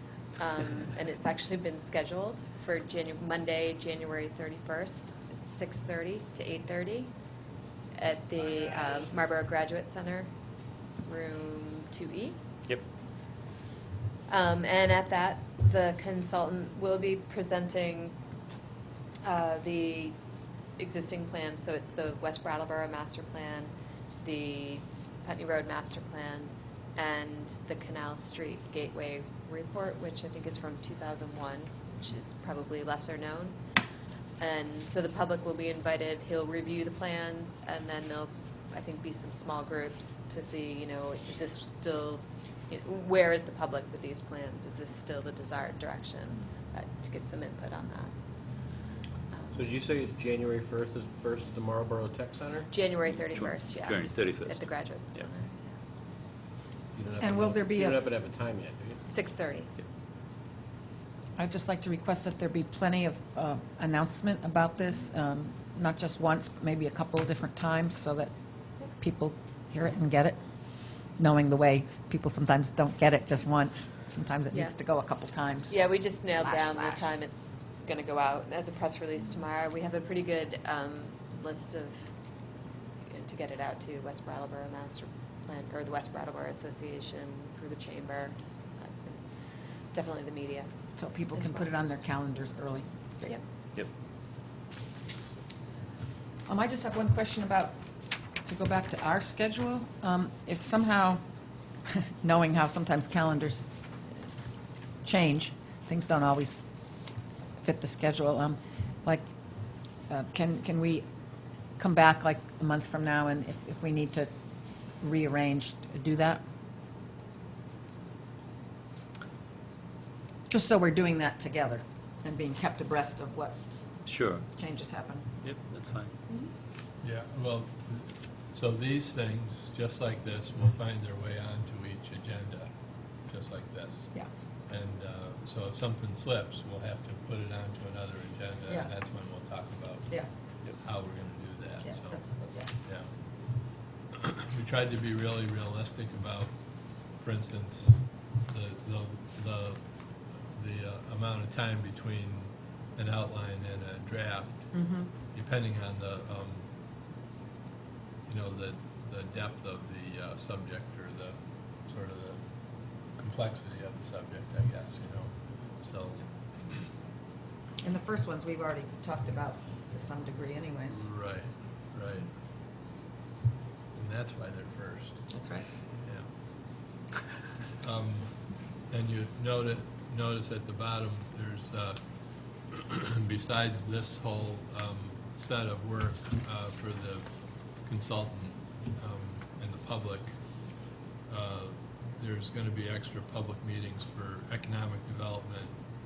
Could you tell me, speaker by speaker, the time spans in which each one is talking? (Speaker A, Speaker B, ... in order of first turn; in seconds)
Speaker A: 0.4-7.1, 7.9-10.3, 11.0-12.4, 14.3-18.1, 19.2-20.2, 20.8-23.7, 24.2-33.6, 34.4-48.1, 49.3-49.8, 52.7-55.7, 59.0-59.7, 75.7-82.1, 83.1-89.2, 89.9-90.7, 91.3-91.7
Speaker B: 49.5-52.7, 56.9-59.0
Speaker C: 53.3-55.3, 124.0-124.4, 125.4-126.1
Speaker D: 57.2-58.0, 61.4-68.3, 68.9-70.4, 71.2-75.8, 76.3-77.1, 91.0-93.4, 96.5-97.8, 98.4-101.2, 101.9-103.7, 105.0-106.7, 107.6-109.2, 110.1-111.0, 111.8-114.3, 115.0-116.4, 120.5-123.5, 124.6-125.3, 141.8-142.7, 154.7-155.1, 167.8-171.1, 175.3-175.7
Speaker E: 127.0-132.7, 133.3-134.1, 134.7-140.2, 140.8-142.2, 144.1-146.5, 147.1-149.9, 150.5-154.7, 155.3-156.7, 158.3-162.4, 163.2-166.8, 170.9-172.3, 173.9-175.2, 176.0-176.3, 177.8-182.0, 182.6-187.3, 187.8-190.3, 191.3-195.7